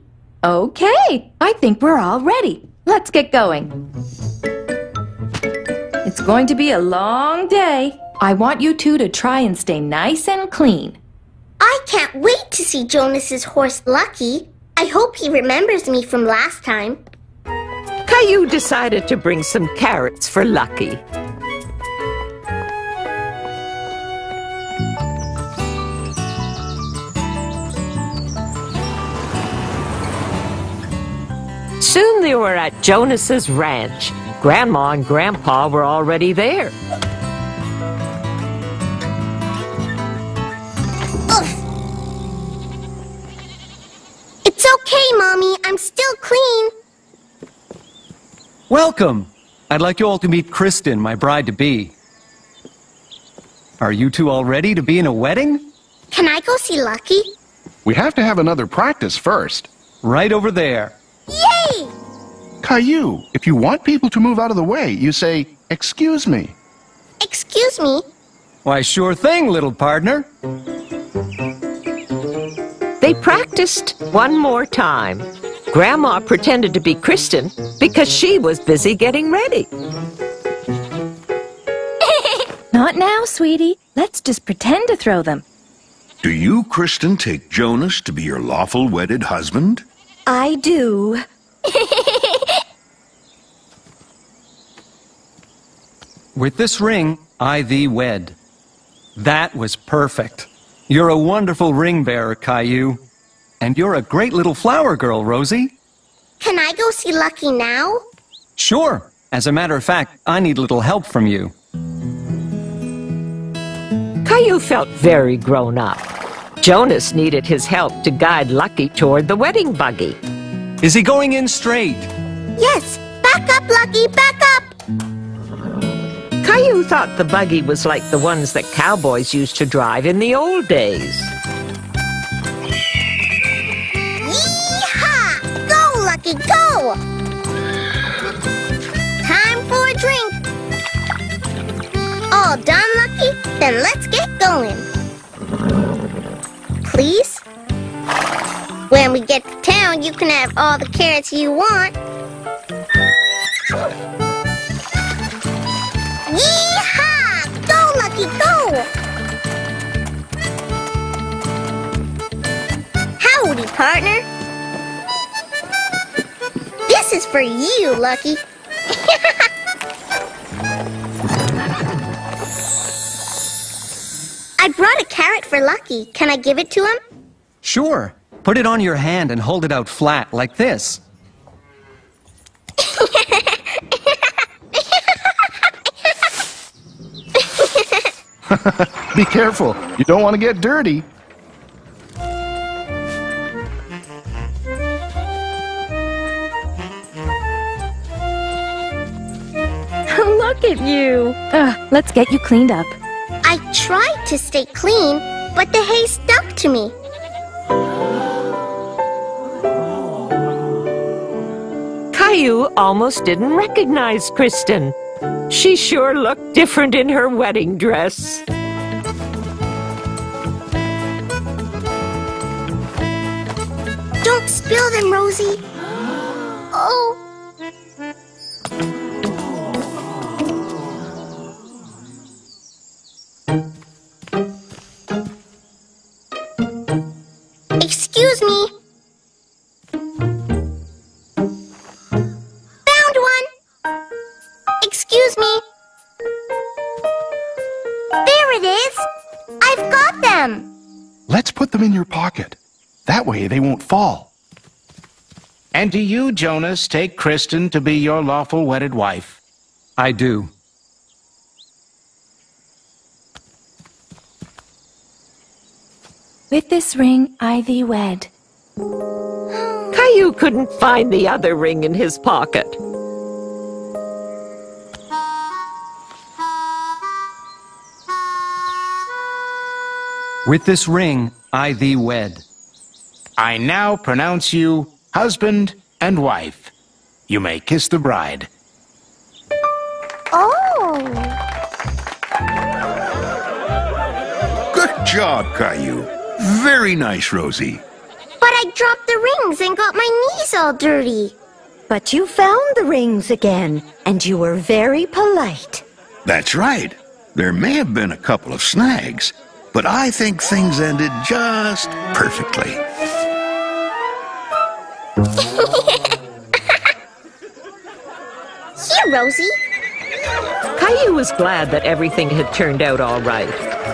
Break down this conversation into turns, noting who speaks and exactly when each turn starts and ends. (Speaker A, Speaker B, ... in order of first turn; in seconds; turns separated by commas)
Speaker A: 0.4-3.7, Speaker A: 6.0-11.0, Speaker B: 11.6-17.0, Speaker C: 18.1-21.0, Speaker C: 31.8-36.7, Speaker B: 41.3-41.6, Speaker B: 44.4-46.7, Speaker D: 48.7-51.9, Speaker D: 53.8-55.7, Speaker B: 56.1-57.3, Speaker E: 57.8-59.7, Speaker D: 60.0-61.0, Speaker B: 61.3-61.9, Speaker E: 62.6-66.5, Speaker B: 67.2-68.0, Speaker D: 68.6-70.3, Speaker C: 73.0-79.7, Speaker A: 82.7-85.4, Speaker F: 86.2-89.8, Speaker A: 90.3-91.2, Speaker D: 96.3-98.3, Speaker D: 99.2-103.0, Speaker D: 103.6-105.7, Speaker B: 106.4-108.0, Speaker D: 108.5-111.5, Speaker C: 114.2-116.0, Speaker C: 116.6-120.2, Speaker D: 120.8-122.1, Speaker B: 122.6-124.7, Speaker C: 126.4-131.3, Speaker B: 134.2-137.0, Speaker B: 139.2-140.4, Speaker B: 142.3-144.9, Speaker B: 146.8-147.4, Speaker B: 148.9-151.9, Speaker B: 156.3-158.9, Speaker B: 163.2-164.3, Speaker B: 166.9-168.4, Speaker B: 168.9-169.4, Speaker B: 174.6-177.0, Speaker D: 177.6-181.0, Speaker B: 182.8-184.2, Speaker B: 184.8-185.2, Speaker B: 187.4-187.9, Speaker E: 188.5-191.1, Speaker A: 200.1-202.9, Speaker B: 203.4-206.9, Speaker C: 212.1-214.9, Speaker C: 215.5-218.4, Speaker B: 224.2-225.6, Speaker B: 226.7-227.2, Speaker B: 237.8-238.7, Speaker B: 242.8-243.5, Speaker B: 244.8-245.6, Speaker B: 248.2-249.1, Speaker B: 249.6-250.7, Speaker E: 251.3-254.3, Speaker G: 255.7-259.4, Speaker D: 260.0-260.5, Speaker A: 266.5-268.3, Speaker B: 269.5-269.9, Speaker C: 269.9-272.8, Speaker D: 280.4-282.4, Speaker G: 283.4-286.7, Speaker G: 287.3-288.5, Speaker B: 290.3-291.4, Speaker F: 294.7-297.8, Speaker B: 298.4-301.3, Speaker H: 301.9-305.8, Speaker F: 306.2-312.8, Speaker B: 318.8-319.5, Speaker C: 320.8-323.6